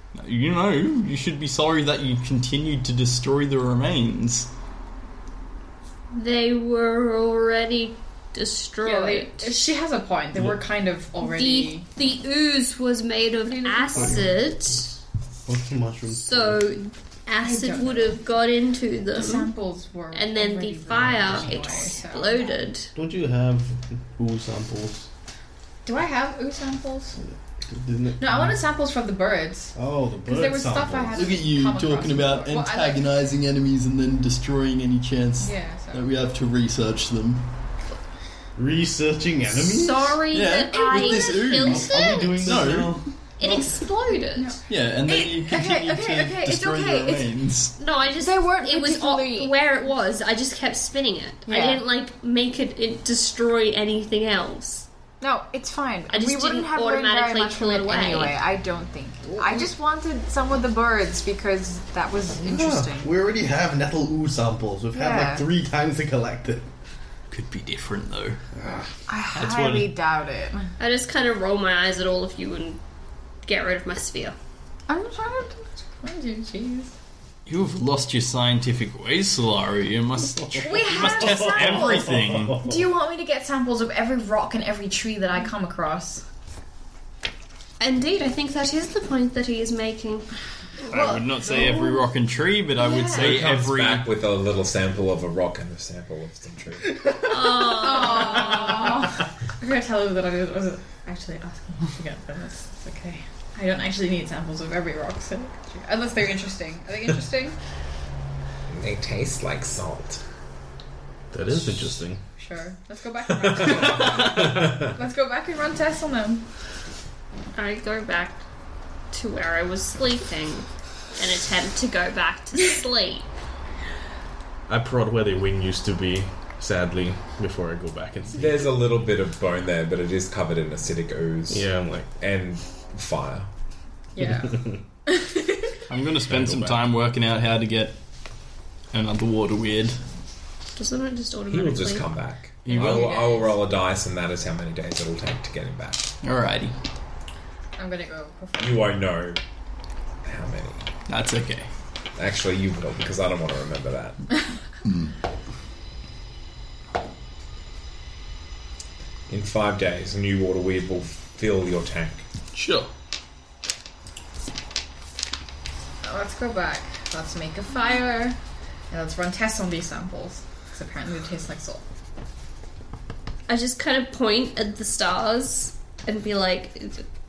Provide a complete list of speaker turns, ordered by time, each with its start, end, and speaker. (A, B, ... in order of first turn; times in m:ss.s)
0:00.1-0:04.5 A
0:06.1-0:09.5 B
0:08.8-0:11.8 C
0:10.3-0:10.6 D
0:11.2-0:14.9 B
0:13.4-0:14.3 C
0:13.9-0:14.3 D
0:15.5-0:16.6 D
0:16.1-0:19.5 B
0:17.4-0:18.2 C
0:19.1-0:22.6 C
0:20.1-0:22.9 B
0:22.9-0:25.1 D
0:25.8-0:27.2 C
0:27.7-0:28.6 D
0:28.2-0:29.7 C
0:29.7-0:31.3 D
0:30.2-0:33.1 C
0:31.1-0:37.5 A
0:35.4-0:36.0 C
0:38.6-0:40.2 D
0:39.6-0:42.6 B
0:40.3-0:43.6 A
0:41.1-0:43.0 D
0:43.4-0:44.6 B
0:44.4-0:47.3 C
0:44.7-0:47.7 A
0:47.8-0:54.9 B
0:48.2-0:49.5 C
0:51.4-0:51.8 C
0:55.2-1:03.1 C
0:56.1-0:58.4 B
0:59.2-0:59.7 D
1:02.4-1:06.7 D
1:04.9-1:05.5 C
1:07.3-1:08.4 A
1:08.6-1:08.9 D
1:09.1-1:10.7 C
1:09.4-1:09.9 A
1:10.8-1:12.8 B
1:13.4-1:14.4 B
1:14.9-1:16.9 C
1:17.4-1:22.6 A
1:20.6-1:22.8 D
1:20.6-1:26.2 C
1:27.8-1:30.3 B
1:30.8-1:32.0 C
1:30.9-1:34.1 A
1:32.8-1:33.4 C
1:33.1-1:36.9 E
1:37.2-1:39.0 B
1:37.7-1:47.6 C
1:48.7-1:50.2 E
1:51.3-1:52.2 D
1:52.4-1:56.4 C
1:53.3-1:54.9 E
1:57.6-1:58.4 B
1:59.1-2:03.3 B
2:04.7-2:08.6 D
2:08.3-2:13.5 E
2:11.5-2:12.1 D
2:14.2-2:15.6 C
2:14.4-2:14.8 D
2:15.9-2:18.0 A
2:16.2-2:16.9 D
2:18.9-2:20.0 A
2:20.8-2:22.1 B
2:21.5-2:26.1 E
2:22.6-2:23.1 A
2:22.7-2:23.5 C
2:26.2-2:26.8 A
2:27.8-2:29.0 C
2:28.6-2:29.4 E
2:30.2-2:30.9 E
2:31.1-2:31.7 A
2:32.2-2:34.2 E
2:39.3-2:42.2 E
2:42.5-2:42.9 A
2:46.0-2:48.4 C
2:48.9-2:51.8 C
2:53.5-2:57.0 B